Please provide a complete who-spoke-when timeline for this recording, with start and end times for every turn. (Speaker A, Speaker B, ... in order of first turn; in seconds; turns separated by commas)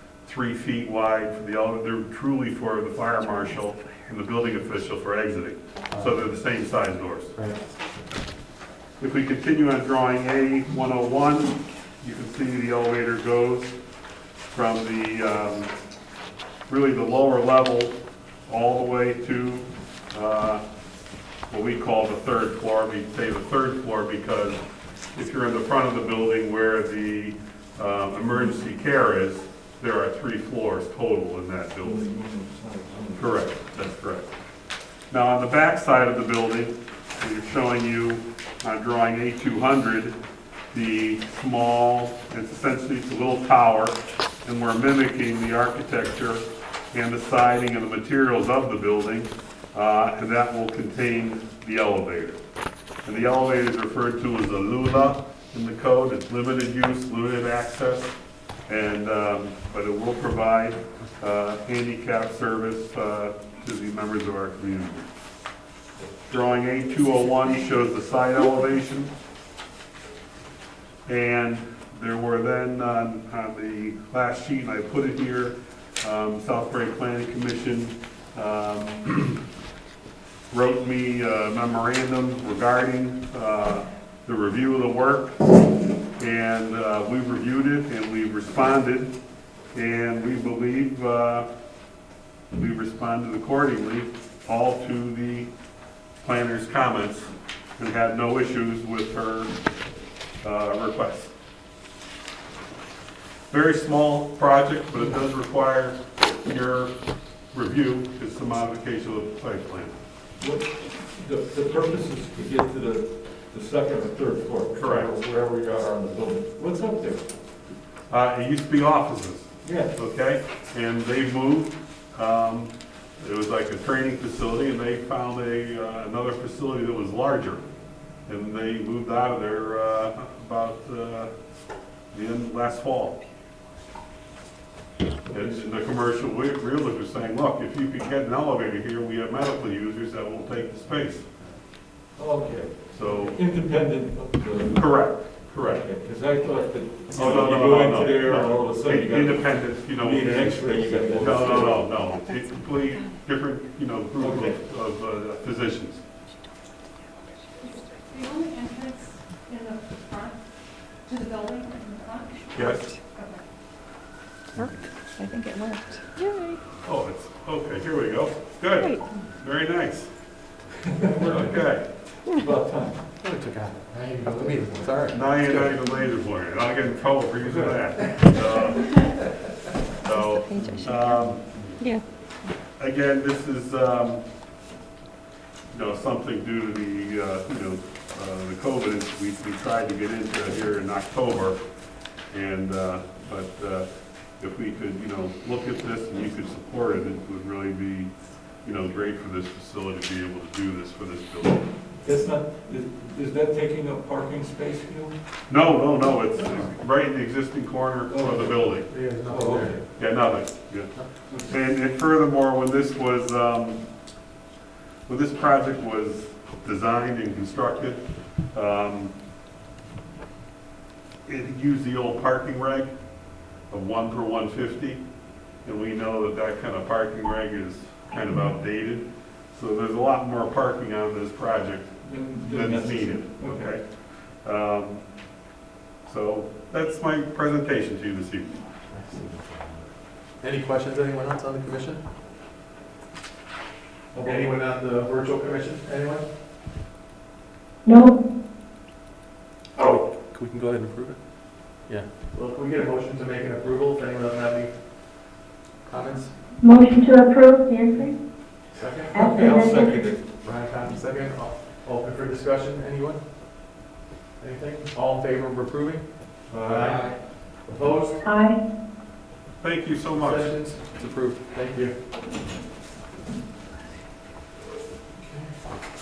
Speaker A: 0.2-7.3, Speaker B: 5.9-6.2, Speaker B: 7.3-7.6, Speaker A: 9.0-13.8, Speaker A: 14.5-15.7, Speaker A: 16.7-20.6, Speaker A: 21.5-24.6, Speaker A: 25.1-32.1, Speaker C: 31.8-33.6, Speaker A: 33.2-34.3, Speaker A: 35.1-40.2, Speaker A: 40.7-52.4, Speaker A: 53.0-58.1, Speaker A: 58.7-65.1, Speaker A: 66.3-69.1, Speaker A: 71.1-79.4, Speaker A: 80.5-85.4, Speaker A: 86.2-89.1, Speaker A: 89.7-91.5, Speaker A: 92.5-95.5, Speaker A: 96.2-99.5, Speaker A: 100.4-101.3, Speaker A: 103.5-106.9, Speaker A: 107.5-110.0, Speaker C: 110.4-117.3, Speaker A: 114.8-115.1, Speaker A: 118.1-127.6, Speaker C: 119.6-120.0, Speaker A: 128.3-131.3, Speaker A: 132.1-133.2, Speaker C: 135.2-135.7, Speaker A: 135.3-141.3, Speaker C: 142.2-151.9, Speaker A: 142.9-143.4, Speaker A: 144.7-145.9, Speaker A: 147.1-156.0, Speaker C: 154.2-154.6, Speaker D: 157.6-160.4, Speaker D: 161.1-162.6, Speaker A: 162.5-162.9, Speaker D: 163.1-163.4, Speaker E: 165.2-166.4, Speaker A: 166.8-170.2, Speaker C: 171.0-171.6, Speaker A: 171.2-172.0, Speaker C: 172.1-173.1, Speaker B: 173.2-175.7, Speaker A: 175.1-179.3, Speaker C: 177.5-178.3, Speaker A: 180.0-181.6, Speaker E: 180.1-181.1, Speaker A: 182.8-184.2, Speaker A: 185.7-191.6, Speaker A: 192.3-201.7, Speaker C: 202.0-205.2, Speaker A: 205.5-209.1, Speaker C: 206.3-206.7, Speaker C: 208.1-209.9, Speaker B: 208.9-209.8, Speaker A: 209.9-213.8, Speaker C: 211.3-211.6, Speaker A: 215.1-219.2, Speaker A: 221.2-235.4, Speaker C: 232.0-233.8, Speaker A: 236.0-238.6, Speaker B: 238.9-239.6, Speaker B: 240.4-242.0, Speaker C: 244.1-244.5, Speaker B: 244.2-246.3, Speaker F: 247.8-248.2, Speaker B: 249.8-251.1, Speaker B: 251.8-254.7, Speaker B: 255.9-256.3, Speaker F: 256.6-258.1, Speaker B: 258.8-259.9, Speaker C: 259.1-260.2, Speaker F: 259.1-259.7, Speaker E: 259.4-259.9, Speaker B: 260.4-263.2, Speaker B: 264.4-268.3, Speaker C: 266.5-267.2, Speaker F: 268.2-268.6, Speaker A: 269.6-270.6, Speaker B: 270.1-272.0, Speaker B: 275.2-275.5